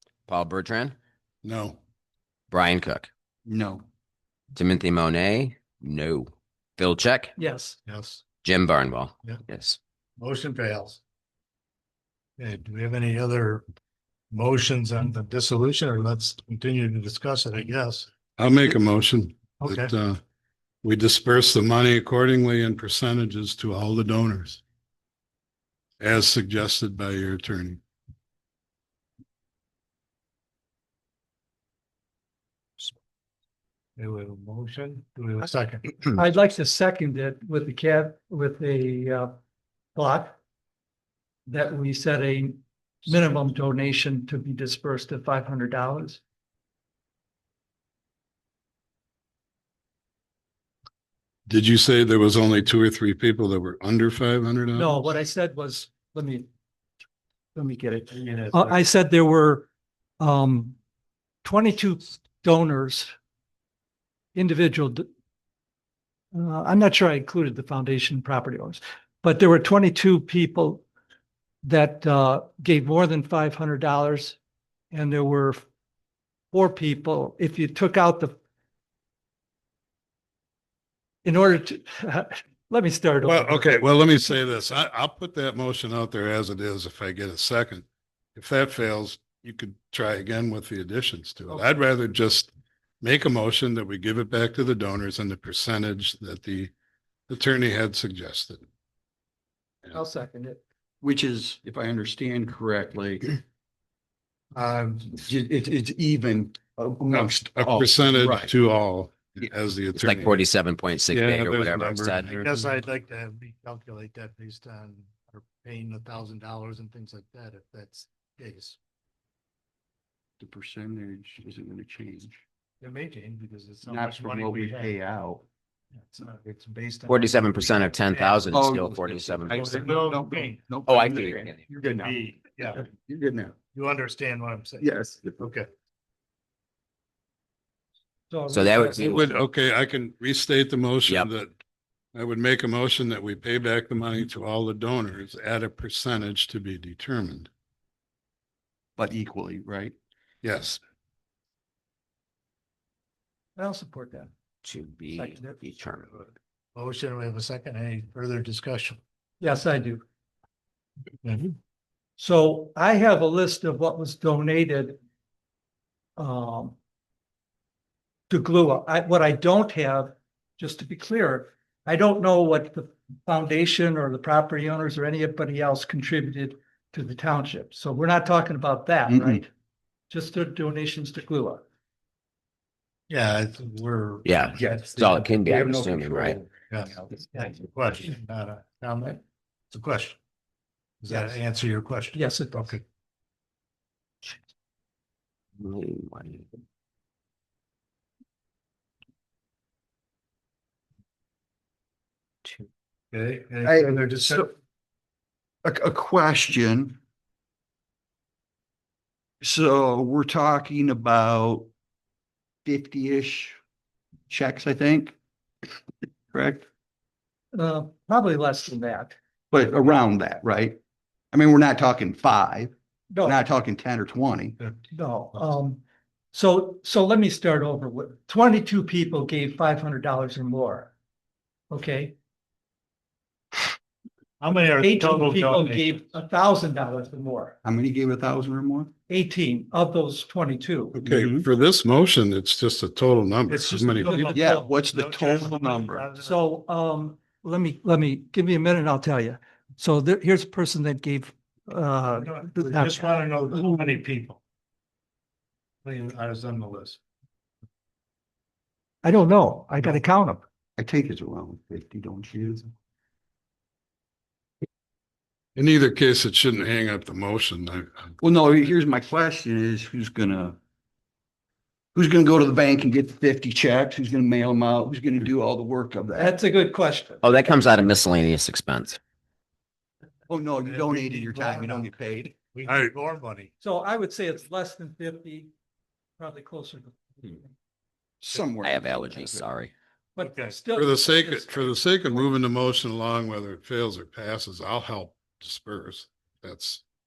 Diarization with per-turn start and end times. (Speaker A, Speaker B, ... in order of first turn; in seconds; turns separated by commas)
Speaker A: 0.3-0.9, Speaker B: 1.4-1.8, Speaker A: 2.5-3.1, Speaker C: 3.5-3.9, Speaker A: 4.5-7.3, Speaker D: 7.4-7.8, Speaker E: 7.9-8.2, Speaker A: 8.4-9.8, Speaker E: 10.2-11.0, Speaker E: 12.4-13.6, Speaker E: 14.3-18.1, Speaker B: 18.4-20.2, Speaker E: 19.6-19.9, Speaker B: 20.8-24.6, Speaker B: 26.0-27.8, Speaker E: 34.0-35.9, Speaker D: 36.1-39.3, Speaker D: 40.0-40.4, Speaker D: 41.5-46.2, Speaker B: 51.5-55.0, Speaker D: 54.8-56.5, Speaker D: 57.6-59.7, Speaker E: 58.1-58.8, Speaker D: 60.2-60.8, Speaker D: 61.4-63.1, Speaker D: 64.3-65.1, Speaker D: 66.3-70.8, Speaker D: 71.6-74.4, Speaker D: 74.9-75.6, Speaker D: 76.5-78.3, Speaker D: 81.2-83.8, Speaker B: 83.2-96.7, Speaker B: 97.3-98.6, Speaker D: 99.9-100.6, Speaker C: 101.0-103.4, Speaker E: 104.5-105.2, Speaker C: 105.1-108.5, Speaker B: 107.1-110.5, Speaker A: 110.0-112.3, Speaker B: 111.1-112.7, Speaker E: 112.2-118.8, Speaker C: 120.4-122.4, Speaker E: 122.8-125.0, Speaker C: 123.9-125.4, Speaker E: 126.0-128.6, Speaker A: 127.1-129.9, Speaker C: 128.5-132.2, Speaker E: 129.5-130.7, Speaker A: 130.9-131.6, Speaker E: 131.9-132.8, Speaker C: 132.8-133.6, Speaker E: 133.7-135.7, Speaker C: 134.8-135.4, Speaker D: 138.3-139.3, Speaker A: 138.5-139.3, Speaker B: 139.0-141.6, Speaker B: 142.1-147.5, Speaker C: 149.0-149.9, Speaker B: 150.4-150.8, Speaker D: 153.6-154.3, Speaker A: 154.6-156.1, Speaker D: 155.1-155.6, Speaker E: 156.8-159.0, Speaker D: 159.4-160.0, Speaker E: 161.2-161.5, Speaker D: 162.2-165.0, Speaker D: 166.2-166.8, Speaker D: 168.3-179.5, Speaker C: 179.1-179.4, Speaker D: 180.1-181.6, Speaker E: 183.1-184.8, Speaker A: 184.2-186.4, Speaker C: 184.6-187.1, Speaker E: 186.7-190.2, Speaker E: 191.0-192.8, Speaker D: 191.1-191.4, Speaker D: 192.1-192.7, Speaker A: 195.6-196.4, Speaker E: 203.1-204.5, Speaker C: 203.6-204.5, Speaker C: 205.6-207.0, Speaker C: 209.4-211.7, Speaker C: 212.7-213.6, Speaker C: 214.3-215.2, Speaker C: 216.3-216.7, Speaker D: 217.5-219.2, Speaker C: 219.5-220.8, Speaker C: 221.3-224.6, Speaker D: 223.1-223.4, Speaker D: 224.9-225.8, Speaker D: 226.3-230.9, Speaker D: 231.7-232.2, Speaker E: 234.4-236.0, Speaker D: 234.8-237.6, Speaker C: 237.6-238.9, Speaker D: 239.1-241.0, Speaker B: 240.9-244.5, Speaker C: 241.1-241.4, Speaker E: 243.5-246.4, Speaker D: 244.0-244.6, Speaker C: 244.3-246.1, Speaker D: 246.2-253.1, Speaker E: 252.2-254.4, Speaker E: 255.8-257.0, Speaker D: 259.0-260.4, Speaker C: 260.8-262.7, Speaker B: 265.6-268.1, Speaker C: 268.2-270.6, Speaker C: 271.9-276.4, Speaker D: 276.2-277.2, Speaker A: 277.2-279.0, Speaker C: 280.3-282.4, Speaker E: 280.6-281.9, Speaker E: 282.5-283.5, Speaker D: 283.6-285.5, Speaker D: 286.2-287.5, Speaker C: 288.2-289.4, Speaker A: 288.6-289.7, Speaker D: 290.1-291.7, Speaker E: 290.2-290.6, Speaker B: 290.8-296.8